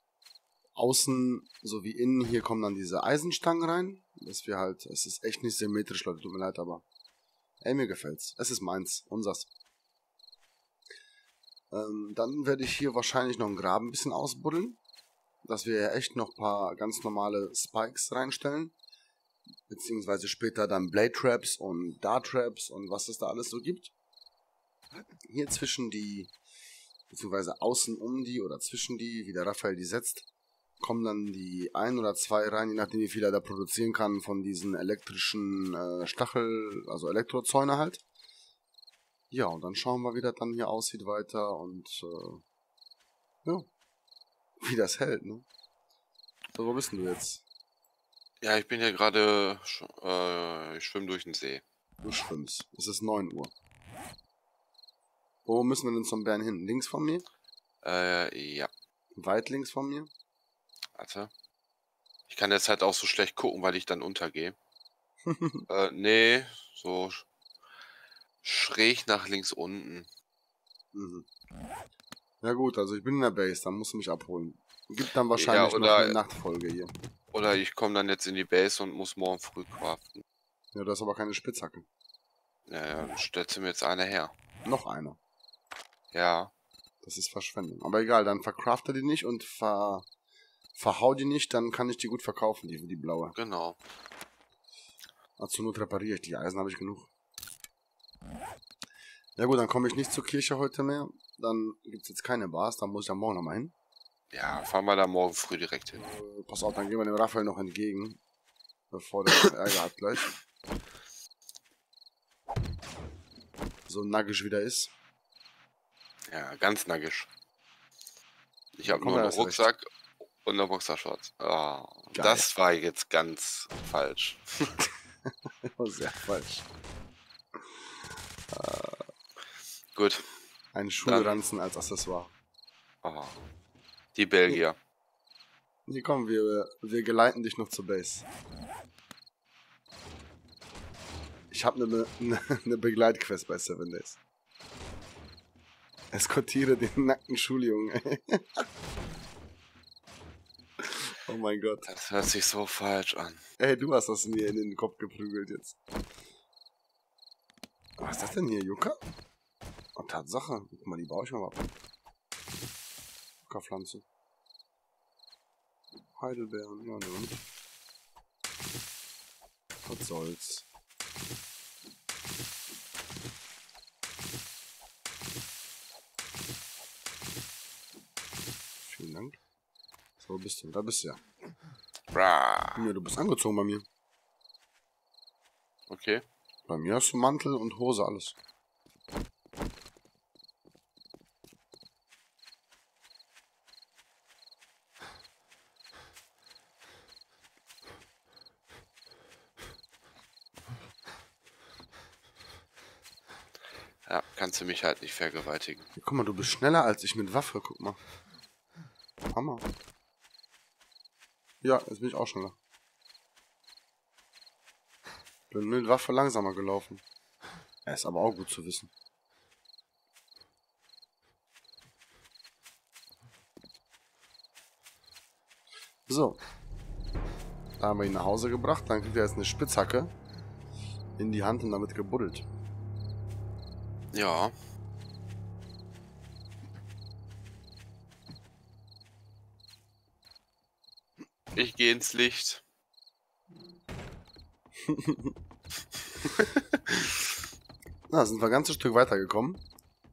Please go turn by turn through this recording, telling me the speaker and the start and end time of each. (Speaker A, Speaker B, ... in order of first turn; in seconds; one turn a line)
Speaker A: 0.8-6.8
Speaker A: 7.6-9.5
Speaker A: 11.7-14.8
Speaker A: 15.4-18.8
Speaker A: 19.7-23.9
Speaker A: 25.3-26.3
Speaker A: 27.1-30.3
Speaker A: 30.8-38.0
Speaker A: 39.3-42.4
Speaker A: 44.6-45.5
Speaker A: 46.5-47.5
Speaker B: 48.4-51.6
Speaker A: 52.0-53.5
Speaker A: 55.5-57.2
Speaker B: 57.8-58.7
Speaker A: 59.2-60.1
Speaker B: 61.0-61.3
Speaker B: 62.3-64.6
Speaker A: 65.3-65.7
Speaker B: 65.7-67.3
Speaker B: 68.4-70.1
Speaker A: 70.9-71.3
Speaker A: 72.4-76.9
Speaker B: 75.4-76.2
Speaker B: 77.3-80.2
Speaker A: 80.7-81.9
Speaker B: 82.7-84.3
Speaker A: 84.7-85.2
Speaker B: 86.1-86.5
Speaker A: 87.0-90.1
Speaker A: 90.8-93.4
Speaker B: 93.3-93.8
Speaker A: 95.4-97.1
Speaker A: 99.4-103.7
Speaker B: 104.3-106.0
Speaker A: 106.0-108.2
Speaker A: 108.9-110.3
Speaker A: 113.9-114.9
Speaker B: 116.3-117.3
Speaker B: 118.8-119.9
Speaker A: 118.8-119.7
Speaker B: 120.4-124.8
Speaker A: 122.1-122.5
Speaker A: 125.8-126.7
Speaker A: 128.5-129.1
Speaker B: 129.9-130.3
Speaker A: 130.7-132.3
Speaker B: 131.1-131.4
Speaker B: 133.0-133.4
Speaker B: 134.2-134.8
Speaker A: 135.9-138.3
Speaker A: 141.5-144.2
Speaker A: 146.1-148.7
Speaker A: 150.8-151.9
Speaker B: 151.8-153.4
Speaker A: 153.6-155.8
Speaker A: 158.0-159.0
Speaker A: 160.0-161.7
Speaker A: 163.4-164.0
Speaker A: 166.2-167.4
Speaker A: 169.9-170.7
Speaker A: 178.8-179.4
Speaker A: 180.2-181.2
Speaker B: 182.1-182.9
Speaker A: 182.8-183.9
Speaker B: 185.9-186.2
Speaker A: 186.7-188.4
Speaker B: 204.1-205.9
Speaker A: 206.0-208.0
Speaker A: 209.3-209.7
Speaker A: 211.6-212.6
Speaker A: 215.5-217.0
Speaker A: 217.9-218.9
Speaker A: 226.1-226.4
Speaker A: 227.8-230.1
Speaker A: 231.2-232.5
Speaker B: 234.1-234.6
Speaker B: 241.5-242.6
Speaker A: 244.9-245.3
Speaker B: 246.2-247.2
Speaker A: 248.1-249.6